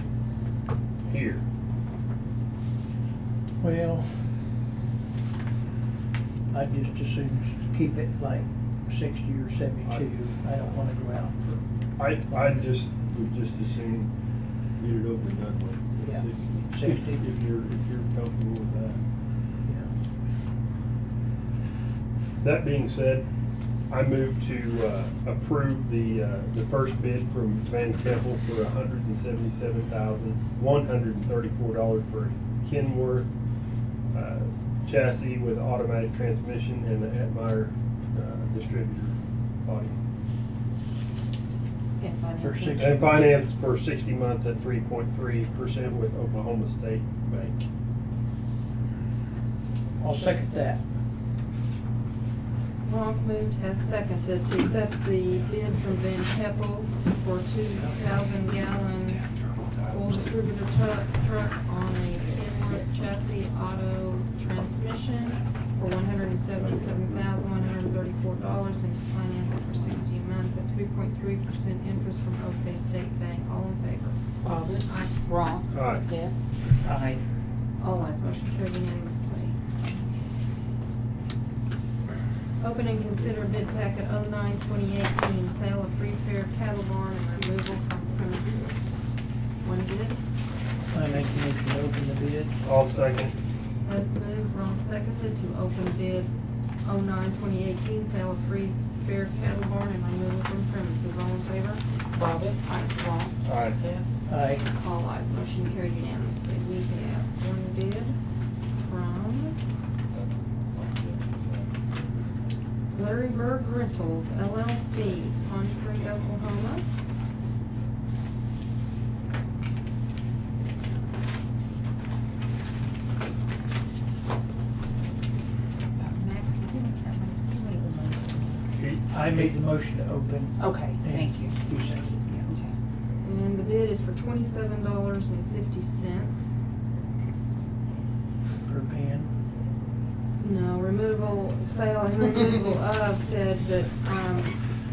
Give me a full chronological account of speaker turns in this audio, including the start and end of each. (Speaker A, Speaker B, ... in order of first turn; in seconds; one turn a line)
Speaker A: 1.1-1.4
Speaker B: 3.6-4.1
Speaker B: 6.5-11.6
Speaker A: 9.8-10.1
Speaker A: 12.0-14.1
Speaker A: 14.8-19.0
Speaker B: 16.0-17.2
Speaker A: 22.4-23.3
Speaker A: 23.9-33.3
Speaker A: 34.1-40.0
Speaker C: 42.0-43.1
Speaker B: 42.4-43.4
Speaker A: 42.8-47.7
Speaker B: 50.0-50.8
Speaker C: 52.8-59.2
Speaker B: 57.7-58.3
Speaker C: 59.8-74.2
Speaker D: 74.4-76.5
Speaker A: 75.7-76.0
Speaker B: 76.8-77.2
Speaker C: 77.8-79.6
Speaker C: 82.6-88.9
Speaker C: 89.6-90.2
Speaker B: 90.9-92.5
Speaker A: 92.6-93.3
Speaker C: 93.8-96.3
Speaker C: 96.8-101.8
Speaker D: 102.1-102.6
Speaker C: 102.6-103.3
Speaker A: 103.4-103.8
Speaker D: 103.8-104.2
Speaker B: 104.2-104.6
Speaker C: 104.8-108.2
Speaker C: 108.8-109.6
Speaker C: 112.9-116.8
Speaker D: 126.0-128.5
Speaker A: 128.8-129.0
Speaker B: 129.1-132.5
Speaker D: 130.6-131.6
Speaker D: 132.4-132.7
Speaker C: 133.2-136.5
Speaker B: 138.6-139.3
Speaker C: 140.4-144.6